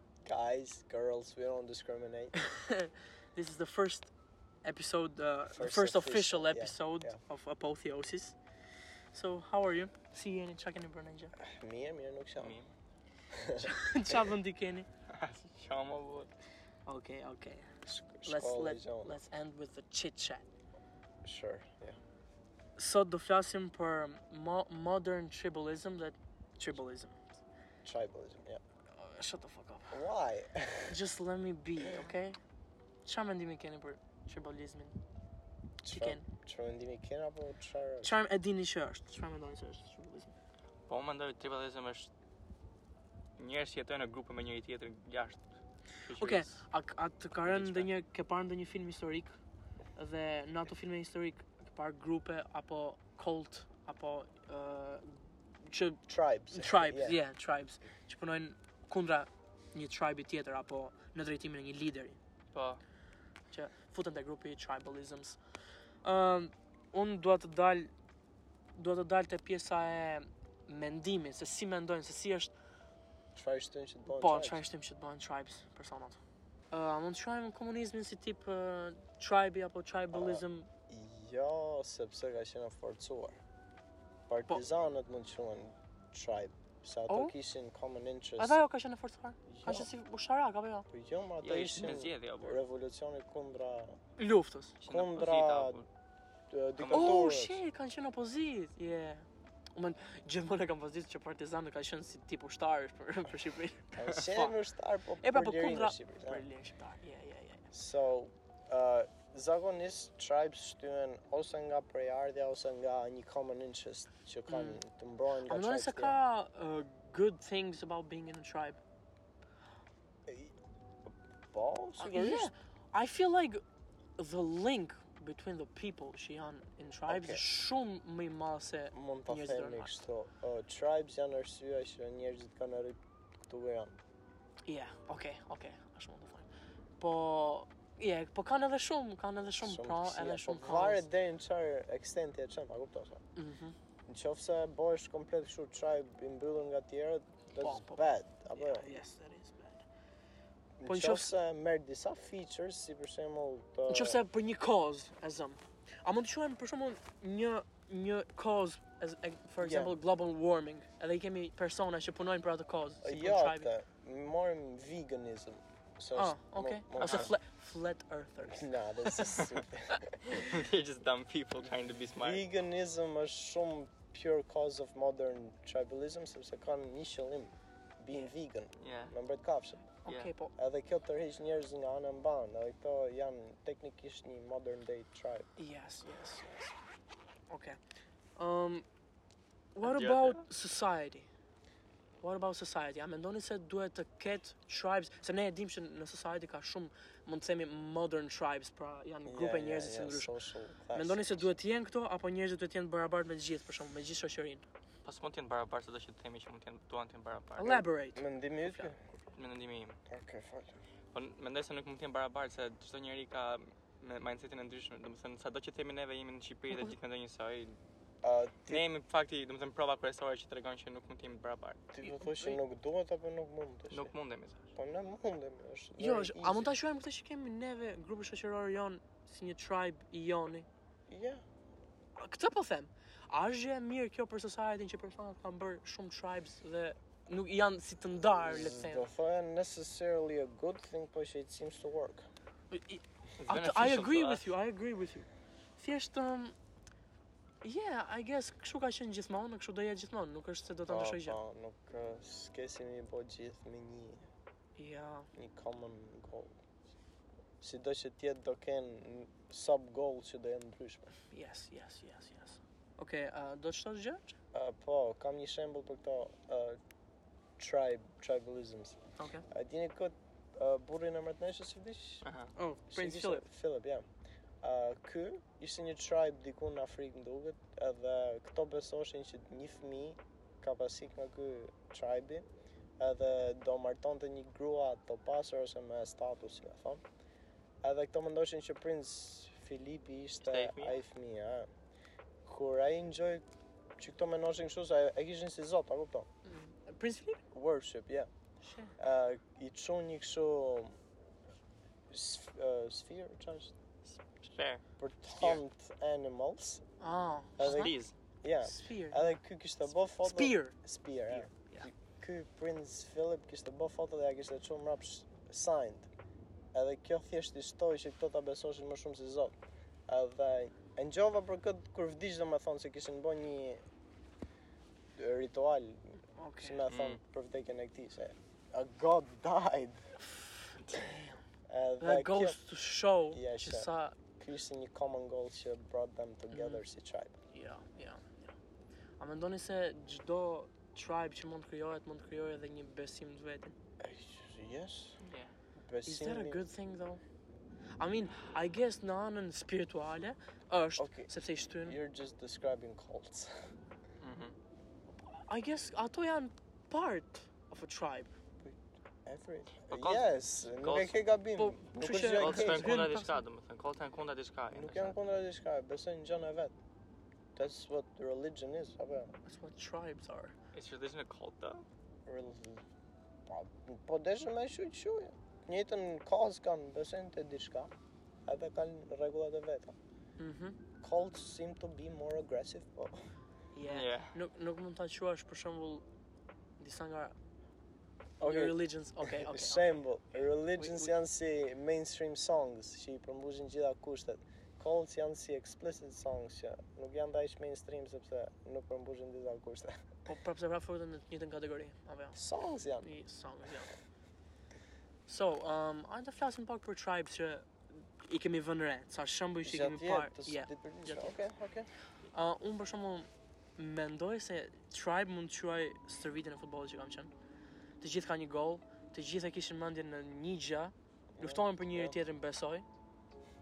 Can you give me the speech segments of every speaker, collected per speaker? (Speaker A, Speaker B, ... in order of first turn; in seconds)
Speaker A: 0.2-2.3, 5.5-7.2, 11.4-12.6, 13.3-14.3, 17.8-19.2, 21.2-22.0, 27.8-28.6, 29.9-31.0, 35.8-38.1, 56.1-57.2, 73.3-74.7, 80.1-83.4, 84.3-88.6, 89.5-89.9, 90.9-94.0, 94.9-95.8, 96.5-97.6, 103.9-106.5, 107.7-116.2, 120.3-120.5, 121.1-122.5, 127.1-127.4, 128.9-133.0, 133.5-134.0, 139.6-143.2, 144.1-149.0, 150.8-154.2, 159.6-160.0, 163.0-167.3, 168.4-170.5, 172.2-180.0, 180.6-185.5, 199.2-201.5, 207.6-209.1, 210.1-210.8, 218.2-218.8, 221.9-224.1, 224.8-226.7, 231.1-231.4, 238.4-242.3, 250.9-254.2, 255.3-256.6, 257.6-261.1, 264.5-266.8, 267.6-272.2, 272.9-274.0, 274.6-282.5, 283.0-287.0, 287.8-291.7, 292.4-293.4, 294.0-296.3, 297.5-298.3, 299.0-300.9, 302.1-303.7, 305.0-306.8, 307.6-316.1, 316.7-319.5, 320.1-323.8, 325.1-330.1, 331.7-332.6, 333.3-337.3, 344.0-345.2, 345.8-346.7, 351.0-353.7, 358.6-363.1, 364.7-366.7, 367.6-369.3, 372.2-372.8, 373.4-377.9, 378.4-379.9, 381.0-383.2, 388.4-399.9, 402.3-403.1, 409.6-411.9, 421.4-422.2
Speaker B: 2.4-4.1, 4.6-8.3, 9.1-11.3, 13.6-14.9, 16.9-17.7, 18.2-20.4, 22.8-27.2, 28.9-30.0, 30.9-32.4, 33.0-35.0, 35.9-36.2, 38.0-40.4, 46.1-49.3, 50.0-56.0, 56.5-62.2, 63.5-65.4, 66.0-67.9, 68.7-72.5, 74.1-76.2, 76.7-80.7, 87.1-87.3, 88.4-90.8, 94.2-94.8, 96.9-104.5, 105.2-107.7, 114.5-114.8, 115.5-118.8, 122.0-123.6, 124.2-129.9, 134.7-136.5, 137.0-141.1, 143.3-143.8, 147.6-149.8, 150.9-151.3, 153.9-163.7, 166.1-169.3, 180.0-180.5, 185.6-186.7, 187.5-187.8, 188.4-188.8, 189.7-191.3, 192.2-200.3, 200.9-204.6, 207.6-208.9, 222.0-222.6, 226.0-230.7, 232.2-239.1, 242.7-246.5, 247.6-251.4, 254.8-255.3, 261.3-264.4, 269.2-269.4, 272.6-273.4, 296.4-297.4, 298.6-298.9, 307.0-308.0, 308.6-309.4, 310.0-310.8, 311.3-311.9, 326.3-326.8, 330.3-331.4, 332.0-334.2, 336.5-336.8, 337.5-338.6, 339.2-343.7, 346.1-347.2, 348.0-352.0, 355.2-358.3, 361.6-363.3, 369.4-370.5, 380.4-380.8, 383.7-386.0, 386.8-387.3, 388.4-391.1, 400.2-402.4, 403.0-403.9, 405.3-411.4, 412.3-417.3, 418.0-422.9
Speaker C: 12.4-12.7, 15.1-16.3, 40.9-42.1, 43.4-45.4, 46.0-46.6, 47.4-47.9, 62.5-62.8, 91.4-92.6, 94.8-95.9, 96.8-97.2, 167.0-167.3, 169.3-169.6, 170.3-172.4, 178.8-179.1, 180.1-180.3, 189.8-190.4, 205.0-207.8, 209.3-210.0, 211.1-217.8, 218.7-221.8, 223.9-224.7, 243.4-244.4, 272.2-272.5, 290.4-291.0, 304.4-304.8, 305.4-305.6, 307.6-308.1, 326.9-327.2, 345.2-345.5, 354.2-354.6, 359.9-361.2, 362.3-365.1, 370.7-371.8, 383.9-384.3